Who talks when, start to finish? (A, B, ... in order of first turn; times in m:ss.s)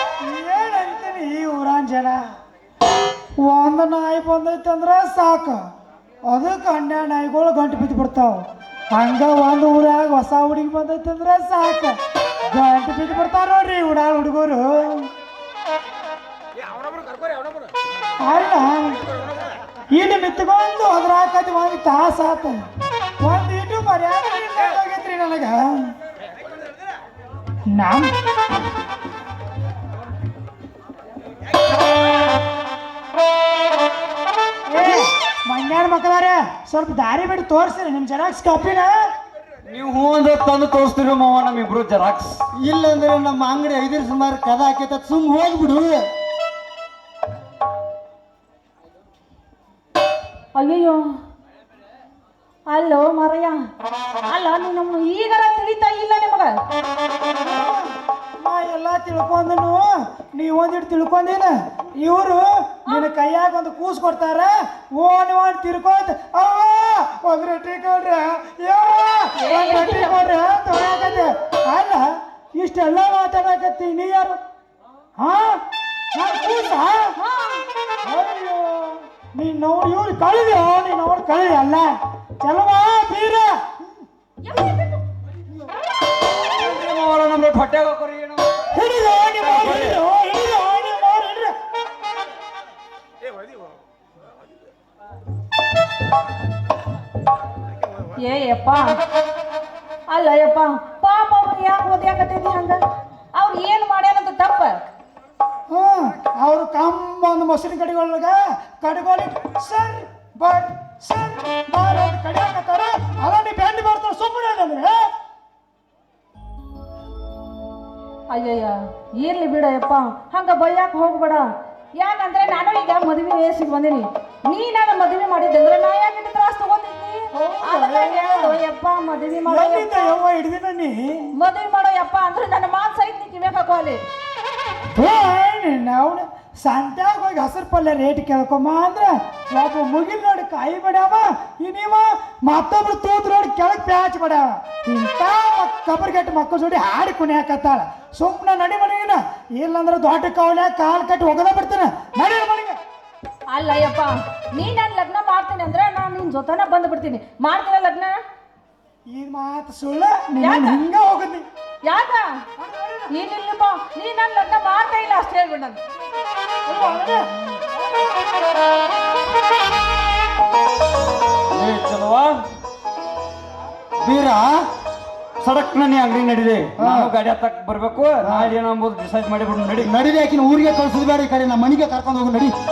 0:00.2-0:02.2 A
0:03.4-0:05.6 A
0:06.3-0:12.0 A
0:12.5-0:15.1 A
0:18.2-0:19.0 A
0:19.9-0:22.6 A
0:23.2-0:25.9 A
0:27.7-0:28.1 A
0:34.7-0:38.9 A
0:39.7-0:42.4 B
0:42.6-0:46.0 C
0:50.5-0:51.0 D
0:52.7-0:53.6 D
0:54.3-0:56.5 D
0:57.2-1:14.4 A
1:09.4-1:10.2 D
1:15.2-1:15.6 A
1:16.1-1:17.1 A
1:17.2-1:17.6 D
1:18.0-1:23.6 A
1:26.5-1:28.5 B
1:28.7-1:31.5 A
1:29.3-1:30.0 B
1:38.2-1:38.9 D
1:40.1-1:42.8 D
1:43.3-1:44.8 D
1:45.7-1:55.1 A
1:58.3-2:01.4 D
2:02.0-2:10.2 D
2:07.3-2:08.6 A
2:09.5-2:11.3 A
2:11.4-2:14.0 D
2:14.9-2:32.8 A
2:33.5-2:38.2 D
2:39.1-2:41.4 A
2:40.4-2:40.8 D
2:41.8-2:42.3 D
2:43.1-2:45.8 D
2:46.6-2:47.3 A
2:51.5-2:52.4 B
2:54.0-2:54.6 C
2:55.4-2:59.9 B
2:56.8-2:57.1 C
2:58.2-2:58.5 C
2:59.8-3:02.5 C